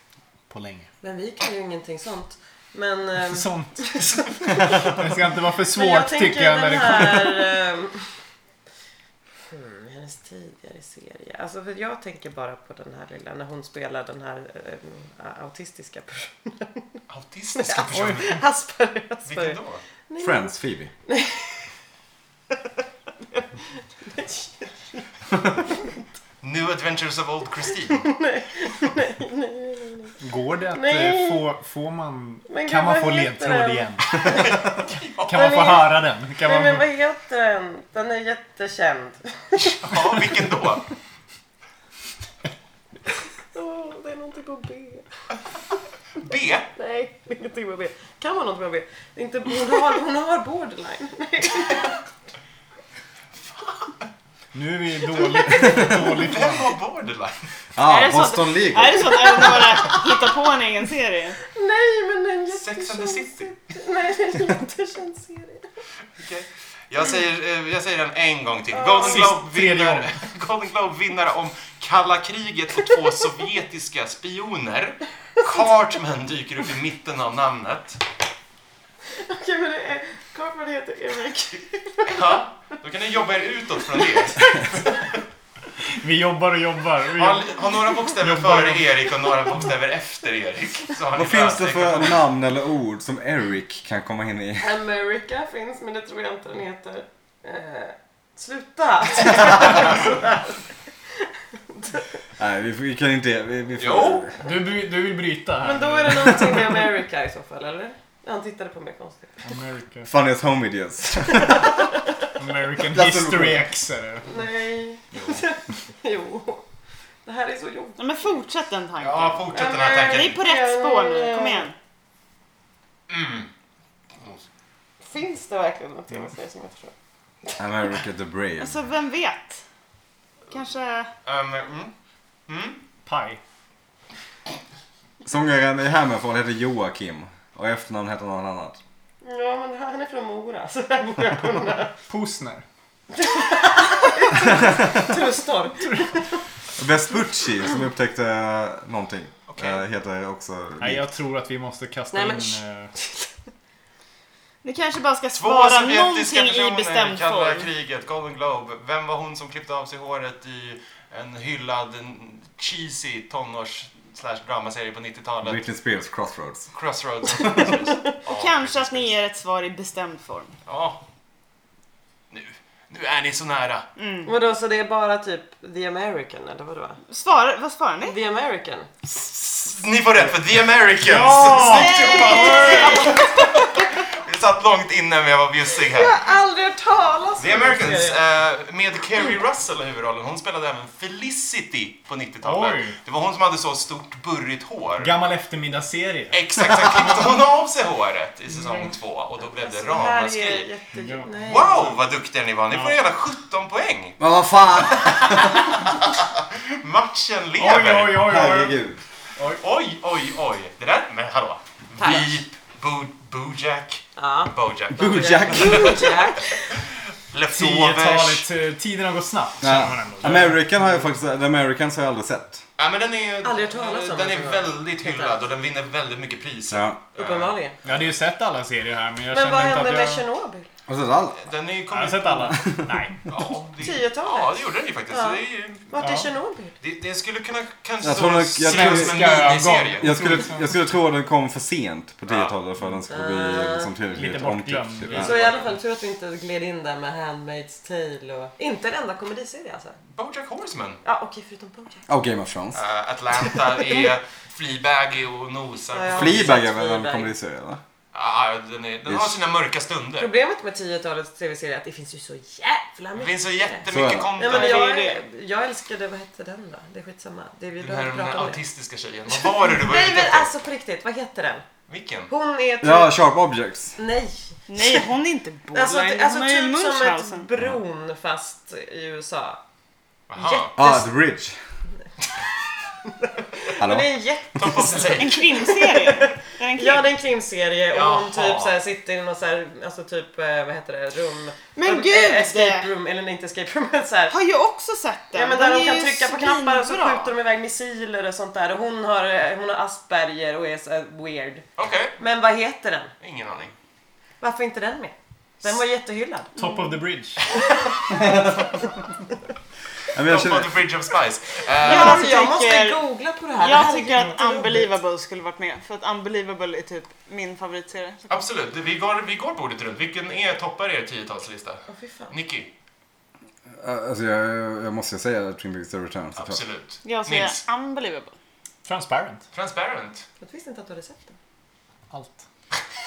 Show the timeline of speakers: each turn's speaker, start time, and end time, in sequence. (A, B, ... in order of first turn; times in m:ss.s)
0:00.5-0:00.9 A
0:01.0-0:04.9 B
0:03.2-0:04.0 A
0:04.6-0:07.6 A
0:05.7-0:08.1 B
0:09.5-0:17.0 B
0:17.1-0:18.4 C
0:17.6-0:20.5 B
0:17.9-0:18.3 A
0:19.2-0:19.8 C
0:20.2-0:20.9 D
0:21.0-0:21.6 B
0:24.0-0:25.0 B
0:26.4-0:28.1 C
0:28.0-0:30.2 B
0:30.2-0:34.3 A
0:30.7-0:31.4 B
0:32.5-0:34.5 B
0:34.2-0:35.3 C
0:35.2-0:36.9 A
0:35.3-0:40.0 B
0:39.6-0:40.8 C
0:43.5-0:45.1 B
0:46.2-0:46.7 C
0:46.8-0:52.0 B
0:53.5-0:53.9 C
0:54.5-0:56.7 A
0:56.0-0:57.4 C
0:57.8-0:59.6 D
0:57.8-1:01.4 E
0:59.4-1:00.1 B
1:01.4-1:05.7 B
1:02.5-1:03.6 C
1:06.2-1:18.0 C
1:08.7-1:09.3 B
1:09.0-1:10.2 A
1:19.1-1:22.4 B
1:22.1-1:24.8 C
1:24.0-1:24.8 B
1:25.8-1:28.9 A
1:27.1-1:32.3 C
1:31.1-1:34.7 D
1:34.6-1:40.6 B
1:42.4-1:44.3 D
1:43.8-1:44.3 C
1:44.4-1:46.7 A
1:45.6-1:49.4 B
1:49.4-1:50.1 A
1:50.0-1:51.8 D
1:52.4-1:54.3 A
1:52.9-1:53.7 D
1:54.3-1:56.6 B
1:57.2-1:58.4 B
1:58.0-2:01.7 E
1:59.0-2:00.4 C
1:59.5-2:01.7 B
2:03.1-2:03.5 C
2:05.0-2:06.9 B
2:07.6-2:08.8 D
2:08.6-2:09.6 E
2:10.5-2:11.1 E
2:11.2-2:11.9 C
2:12.5-2:12.8 C
2:13.0-2:13.4 A
2:15.2-2:18.8 D
2:19.2-2:22.0 B
2:22.1-2:22.6 A
2:23.1-2:26.4 B
2:26.8-2:31.0 D
2:29.5-2:29.8 C
2:30.8-2:32.9 A
2:32.1-2:33.3 B
2:34.6-2:37.7 E
2:35.3-2:45.6 C
2:45.4-2:46.7 D
2:46.7-2:49.1 C
2:48.3-2:50.5 E
2:50.6-2:51.0 C
2:52.3-2:53.9 C
2:54.0-2:54.3 E
2:54.2-2:57.0 B
2:57.1-2:58.2 E
2:58.0-2:58.9 B
2:59.0-3:06.2 C
3:01.0-3:02.9 A
3:01.7-3:03.8 B
3:01.8-3:03.1 E
3:05.9-3:08.2 B
3:07.4-3:15.1 C
3:12.4-3:13.0 A
3:15.0-3:16.4 A
3:16.3-3:20.7 C
3:18.5-3:18.9 A
3:19.4-3:22.0 B
3:20.9-3:21.5 A
3:21.4-3:24.2 C
3:22.7-3:23.0 A
3:24.2-3:25.7 D
3:24.9-3:28.4 C
3:27.6-3:28.8 A
3:28.2-3:29.0 D
3:29.6-3:36.2 C
3:32.0-3:32.4 B
3:34.2-3:36.7 B
3:34.9-3:36.1 D
3:37.3-3:38.4 C
3:37.5-3:41.1 A
3:39.6-3:42.6 D
3:42.8-3:47.5 C
3:43.4-3:45.4 B
3:46.7-3:47.0 D
3:47.2-3:47.8 B
3:47.8-3:50.2 A
3:49.3-3:50.7 B
3:50.9-3:51.4 D
3:51.4-3:52.7 C
3:51.9-3:53.3 A
3:53.3-3:55.9 C
3:53.8-3:56.8 B
3:56.0-3:56.3 A
3:56.8-4:00.3 C
3:58.0-4:05.5 D
3:58.6-4:00.8 A
4:02.2-4:02.5 C
4:03.1-4:03.9 B
4:04.1-4:05.6 A
4:05.1-4:10.0 B
4:10.1-4:11.0 C
4:11.0-4:12.0 B
4:12.1-4:12.8 D
4:12.7-4:16.6 C
4:13.6-4:14.1 B
4:15.9-4:17.3 B
4:16.1-4:17.8 D
4:18.1-4:20.3 C
4:19.0-4:19.3 D
4:20.2-4:23.8 B
4:23.1-4:24.9 C
4:23.9-4:24.4 D
4:24.4-4:28.6 B
4:24.4-4:25.2 E
4:27.8-4:30.5 C
4:29.3-4:31.6 B
4:31.9-4:32.3 C
4:32.3-4:33.2 B
4:32.8-4:34.0 D
4:34.0-4:35.0 B
4:34.7-4:37.5 E
4:35.7-4:39.6 B
4:40.3-4:40.7 C
4:40.3-4:41.1 B
4:40.7-4:41.6 D
4:43.2-4:54.4 B
4:43.8-4:44.1 D
4:44.6-4:45.6 C
4:45.0-4:47.1 E
4:47.9-4:48.8 C
4:51.8-4:52.9 E
4:54.3-4:57.3 E
4:55.3-5:01.6 B
5:01.8-5:02.2 C
5:02.2-5:03.1 B
5:03.2-5:03.7 C
5:04.4-5:06.6 B
5:06.6-5:07.4 A
5:08.1-5:08.9 D
5:10.1-5:10.8 D
5:10.2-5:12.3 C
5:11.8-5:13.0 E
5:11.8-5:14.9 B
5:13.6-5:18.4 E
5:18.3-5:22.7 C
5:21.9-5:22.4 B
5:23.8-5:26.6 D
5:26.4-5:27.6 C
5:27.0-5:28.3 E
5:28.8-5:29.4 A
5:29.5-5:30.2 C
5:30.4-5:31.3 B
5:32.1-5:32.4 A